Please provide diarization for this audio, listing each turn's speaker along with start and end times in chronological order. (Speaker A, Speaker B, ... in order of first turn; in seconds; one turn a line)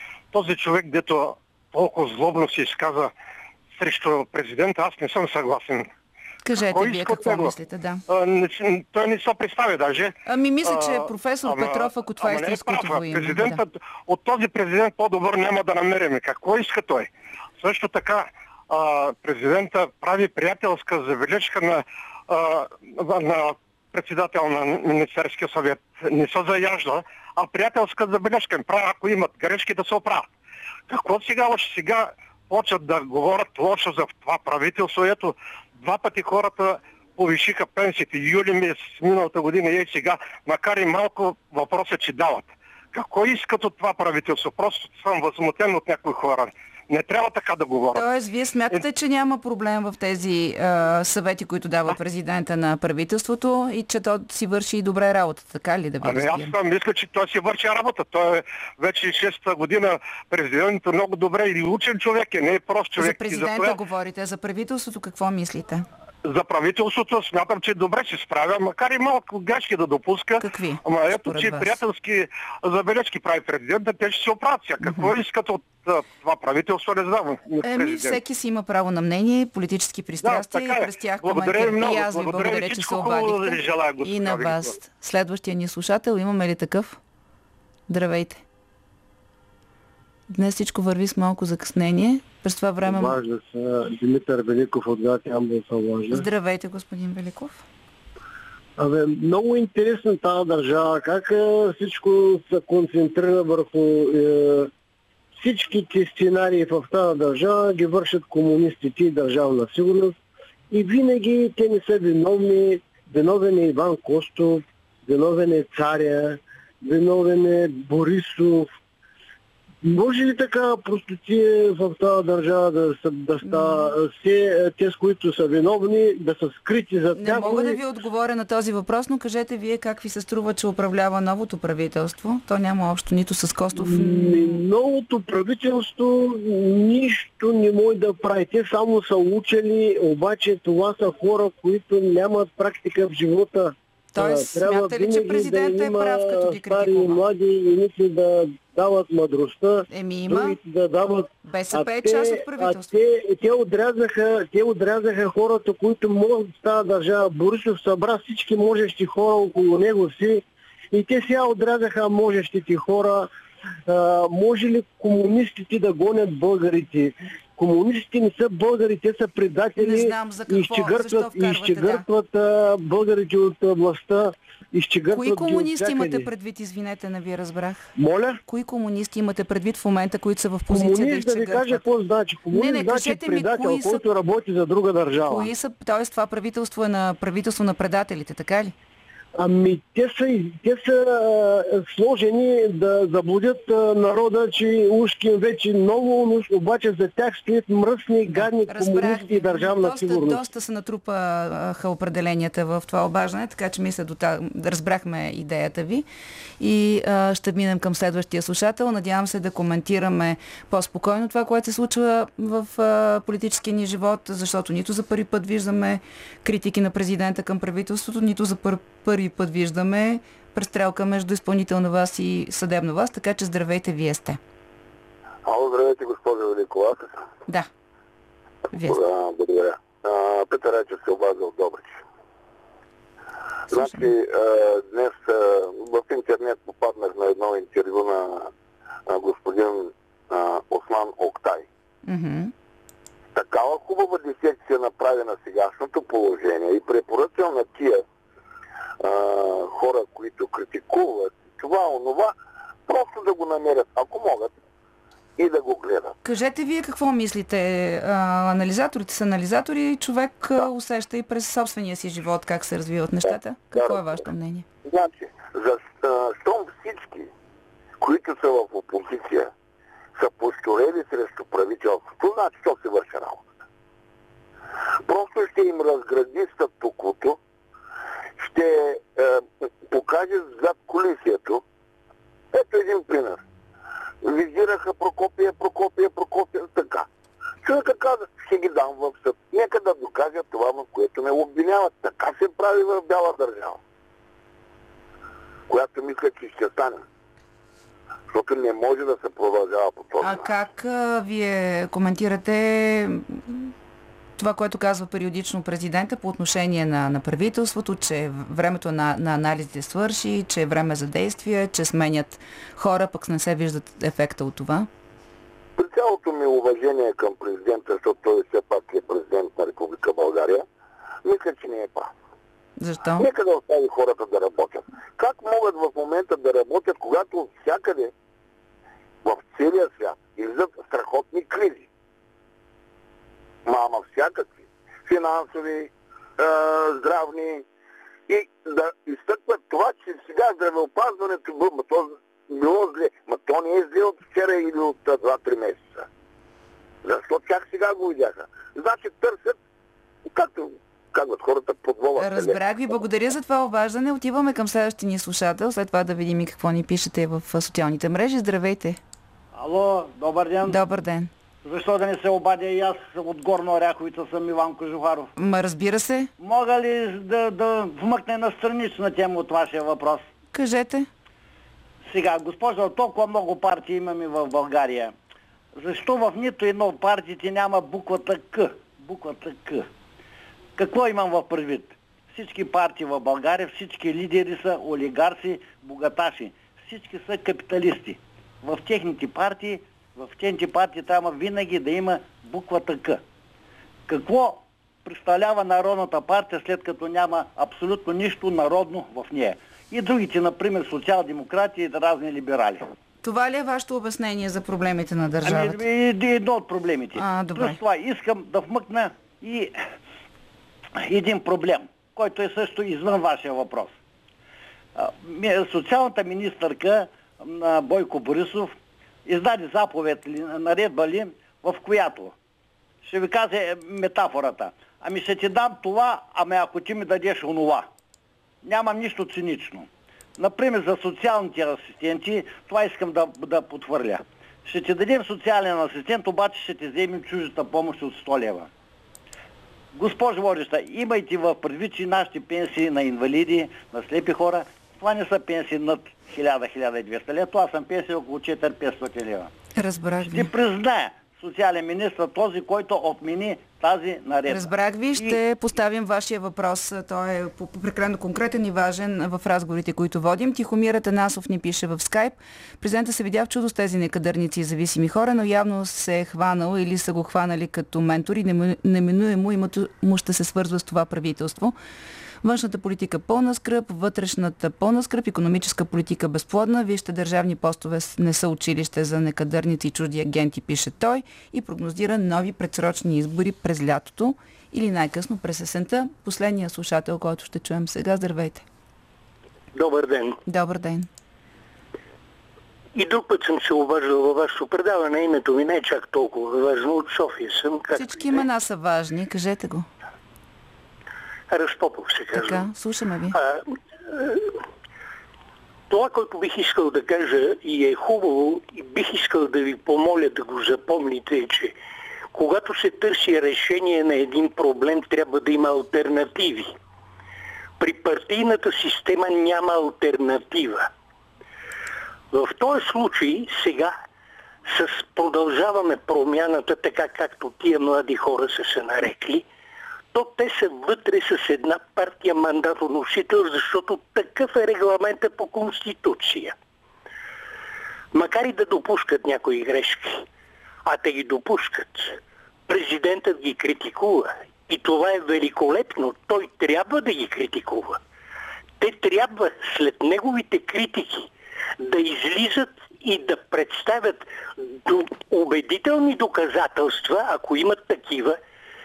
Speaker A: 0.3-3.1
Speaker A: 3.8-5.9
Speaker B: 6.4-8.0
Speaker A: 6.6-7.5
Speaker A: 8.1-30.3
Speaker B: 10.3-13.6
Speaker A: 30.9-48.1
Speaker B: 47.9-56.5
Speaker A: 56.0-63.8
Speaker B: 63.0-65.9
Speaker A: 66.2-78.2
Speaker B: 70.4-71.8
Speaker B: 74.8-75.1
Speaker B: 77.6-87.0
Speaker A: 80.2-84.8
Speaker B: 87.9-88.4
Speaker B: 90.3-93.2
Speaker C: 92.8-96.2
Speaker B: 96.1-97.6
Speaker C: 98.8-104.7
Speaker C: 105.4-110.2
Speaker C: 110.7-118.7
Speaker C: 119.8-127.8
Speaker B: 123.4-123.9
Speaker B: 127.2-134.6
Speaker C: 133.8-163.3
Speaker B: 144.1-147.2
Speaker B: 149.9-150.6
Speaker B: 151.4-152.9
Speaker C: 163.9-176.3
Speaker B: 169.8-172.1
Speaker B: 175.1-177.9
Speaker C: 178.0-178.4
Speaker B: 178.4-181.8
Speaker C: 180.7-185.5
Speaker B: 182.5-184.0
Speaker B: 185.2-188.7
Speaker C: 189.3-200.4
Speaker B: 198.3-206.1
Speaker B: 206.6-224.4
Speaker D: 225.4-227.2
Speaker B: 228.7-229.0
Speaker D: 228.8-231.9
Speaker B: 233.7-234.1
Speaker D: 233.7-238.5
Speaker D: 239.1-241.7
Speaker B: 242.1-242.5
Speaker D: 243.3-248.0
Speaker D: 249.0-252.3
Speaker D: 252.9-254.6
Speaker D: 255.4-256.1
Speaker B: 256.2-264.6
Speaker D: 263.7-264.1
Speaker D: 264.9-267.3
Speaker D: 268.0-269.5
Speaker D: 270.2-273.5
Speaker D: 275.1-277.4
Speaker D: 278.4-281.6
Speaker D: 282.5-283.4
Speaker D: 284.2-287.1
Speaker D: 287.6-293.8
Speaker D: 295.7-297.0
Speaker D: 298.3-300.4
Speaker B: 300.2-303.7
Speaker B: 304.4-314.9
Speaker D: 315.8-320.6
Speaker D: 321.2-322.1
Speaker B: 322.8-323.3
Speaker D: 323.2-328.1
Speaker D: 329.2-331.9
Speaker D: 333.6-337.6
Speaker D: 338.3-346.1
Speaker D: 347.1-349.6
Speaker D: 350.3-352.6
Speaker B: 352.2-359.0
Speaker E: 359.5-360.8
Speaker B: 360.6-361.3
Speaker E: 361.6-365.3
Speaker B: 365.4-366.3
Speaker E: 366.4-370.3
Speaker B: 370.5-371.1
Speaker E: 372.1-375.1
Speaker E: 375.8-379.9
Speaker E: 380.8-393.2
Speaker E: 394.1-402.8
Speaker B: 403.2-405.8
Speaker E: 405.4-409.8
Speaker B: 407.2-407.8
Speaker E: 411.0-413.9
Speaker E: 414.9-418.7
Speaker E: 419.3-422.3
Speaker E: 423.0-427.9
Speaker E: 428.6-438.7
Speaker E: 439.9-449.5
Speaker B: 449.8-450.5
Speaker E: 450.3-455.4
Speaker B: 454.5-471.8
Speaker B: 472.4-488.6
Speaker F: 489.7-490.4
Speaker B: 490.5-491.1
Speaker F: 492.9-498.4
Speaker B: 497.9-499.9
Speaker F: 501.5-502.6
Speaker B: 502.3-503.4
Speaker F: 503.3-504.6
Speaker F: 505.9-511.8
Speaker F: 512.3-516.7
Speaker F: 517.8-520.9
Speaker F: 522.3-523.9
Speaker F: 524.6-529.5
Speaker F: 530.1-536.5
Speaker F: 538.1-540.3
Speaker F: 540.9-548.0
Speaker F: 548.8-551.3
Speaker F: 551.8-558.4